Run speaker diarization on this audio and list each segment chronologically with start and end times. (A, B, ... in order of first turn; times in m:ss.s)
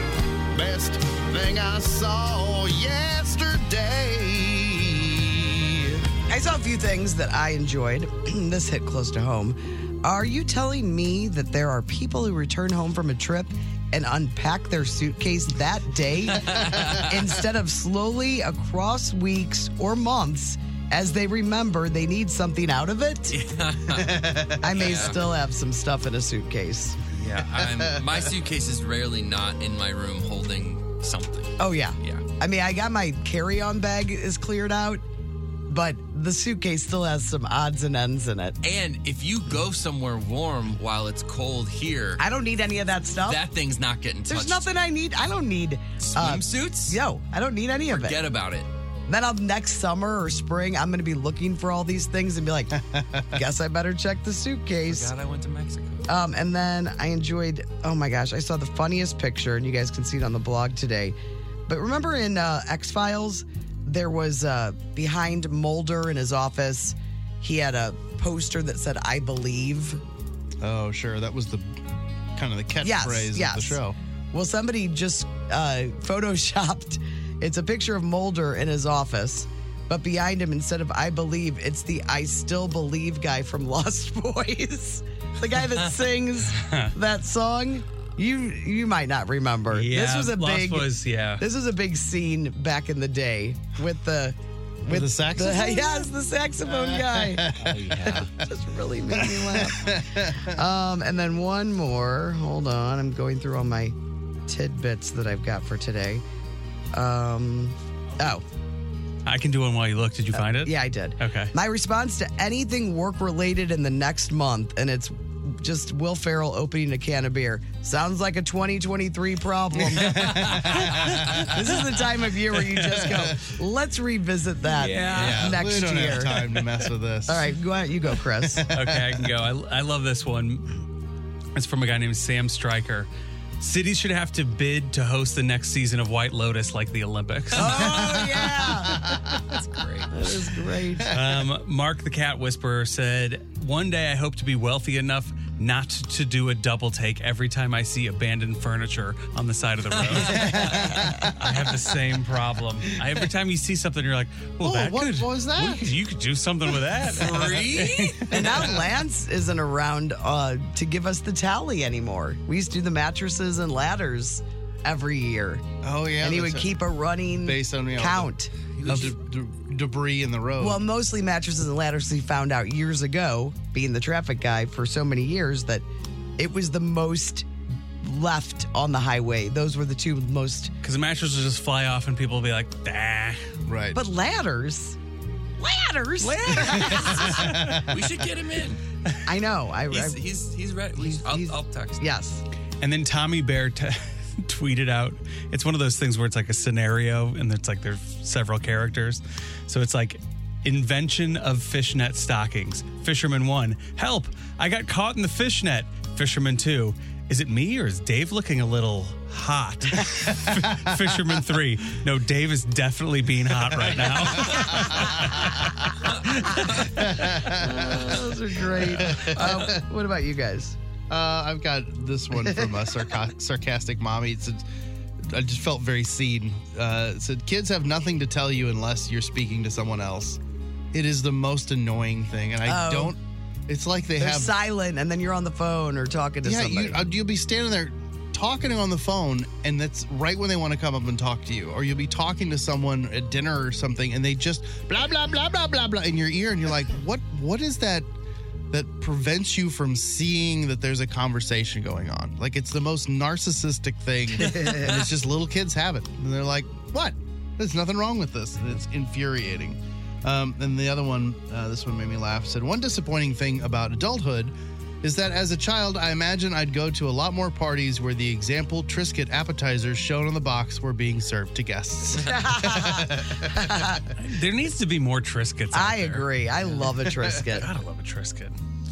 0:00.5-0:06.0 A
0:06.3-0:23.4 B
0:16.4-0:17.2 C
0:23.3-0:25.2 C
0:23.9-0:25.1 A
0:24.6-0:27.0 B
0:27.1-0:32.2 C
0:27.6-0:28.1 A
0:31.6-0:35.0 B
0:35.7-0:38.6 B
0:38.6-0:42.2 C
0:42.2-0:43.4 B
0:43.3-0:44.7 C
0:44.3-0:48.3 B
0:46.0-0:47.0 C
0:47.9-0:48.7 C
0:49.1-0:52.8 B
0:52.9-0:53.3 A
0:53.3-0:55.1 B
0:54.8-0:56.1 C
0:56.1-1:01.2 B
1:01.7-1:10.0 B
1:10.6-1:11.8 A
1:12.4-1:14.0 A
1:12.8-1:13.8 B
1:14.3-1:37.6 B
1:26.6-1:26.9 D
1:29.7-1:31.4 D
1:34.9-1:36.1 A
1:36.7-1:38.2 A
1:37.6-1:38.3 C
1:38.3-1:44.0 B
1:39.2-1:40.6 A
1:44.5-1:46.2 B
1:46.9-1:48.4 B
1:49.3-1:51.5 D
1:50.3-2:06.6 B
1:59.8-2:01.7 A
2:03.0-2:03.4 A
2:04.7-2:05.6 D
2:05.1-2:07.5 A
2:07.3-2:08.7 B
2:08.4-2:09.2 A
2:08.7-2:10.7 D
2:11.6-2:13.1 D
2:13.6-2:18.2 D
2:17.6-2:19.2 B
2:17.9-2:19.4 A
2:19.5-2:20.1 C
2:20.1-2:21.1 B
2:21.1-2:38.3 D
2:30.0-2:30.7 C
2:30.3-2:31.3 A
2:30.5-2:31.1 B
2:34.6-2:35.9 A
2:37.2-2:38.4 C
2:38.3-2:45.6 B
2:38.4-2:38.8 A
2:45.8-2:46.7 A
2:46.2-2:48.5 B
2:47.4-2:48.3 A
2:48.8-2:49.2 C
2:48.8-2:50.8 A
2:50.6-2:55.8 B
2:56.4-2:57.5 B
2:58.0-3:00.7 B
3:00.8-3:03.5 D
3:03.7-3:04.0 A
3:03.9-3:05.0 B
3:05.6-3:07.6 B
3:06.2-3:07.7 D
3:06.7-3:07.9 A
3:07.7-3:08.8 C
3:09.3-3:10.2 B
3:09.9-3:12.0 C
3:11.0-3:12.4 B
3:12.8-3:36.4 D
3:33.8-3:35.3 A
3:36.8-3:39.8 A
3:37.5-3:40.8 B
3:41.1-3:44.6 A
3:42.3-3:42.7 B
3:45.2-3:50.4 A
3:50.9-3:54.5 A
3:52.6-3:53.2 B
3:54.2-3:57.1 B
3:56.4-4:08.1 A
4:08.7-4:34.1 A
4:14.4-4:14.8 B
4:32.1-4:34.0 B
4:34.2-4:36.3 D
4:35.7-4:37.7 B
4:37.3-4:38.6 D